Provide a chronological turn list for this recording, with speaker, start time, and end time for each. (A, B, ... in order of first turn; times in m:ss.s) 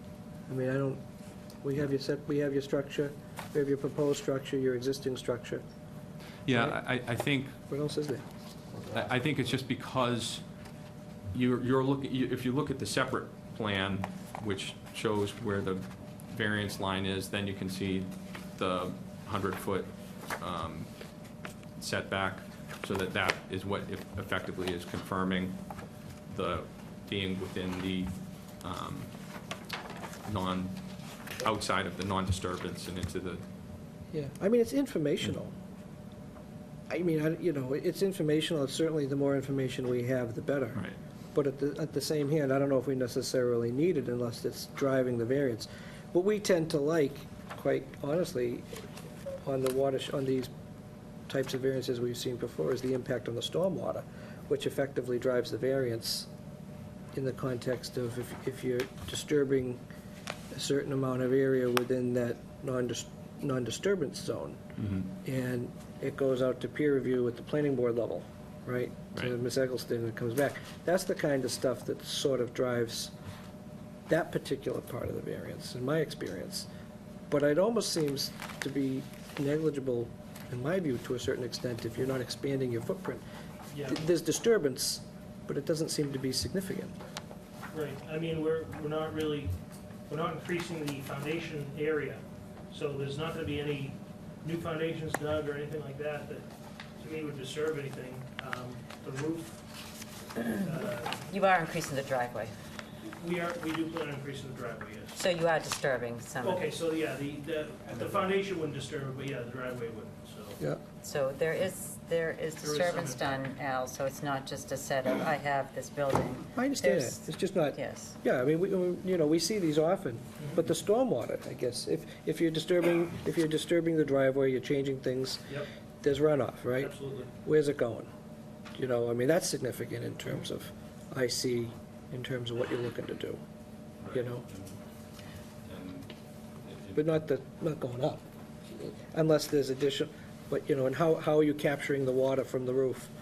0:00.5-0:01.0 A
0:01.6-0:05.6 A
0:06.4-0:07.6 B
0:06.5-0:06.8 A
0:07.7-0:08.2 A
0:08.9-0:10.4 B
0:11.3-0:21.0 B
0:21.8-0:25.6 B
0:26.3-0:29.1 B
0:30.3-0:30.8 B
0:31.4-0:33.4 B
0:34.1-0:35.5 A
0:36.9-0:40.8 A
0:41.3-0:48.9 A
0:49.4-0:50.5 A
0:51.3-0:56.3 A
0:57.1-0:59.8 A
1:00.5-1:04.6 A
1:04.8-1:05.1 B
1:05.1-1:13.1 A
1:14.1-1:16.7 A
1:17.3-1:23.2 A
1:23.7-1:24.0 C
1:23.9-1:26.9 A
1:27.7-1:29.5 C
1:30.1-1:36.5 C
1:37.0-1:39.7 C
1:40.6-1:41.3 C
1:41.3-1:42.5 D
1:43.2-1:45.2 C
1:45.2-1:46.7 D
1:46.4-1:50.6 C
1:51.0-1:58.2 D
1:52.6-1:53.4 C
1:56.6-2:06.9 A
2:06.8-2:07.3 C
2:07.4-2:08.1 A
2:08.8-2:13.4 A
2:14.0-2:14.8 B
2:14.1-2:14.4 A
2:15.6-2:17.1 B
2:17.0-2:23.1 A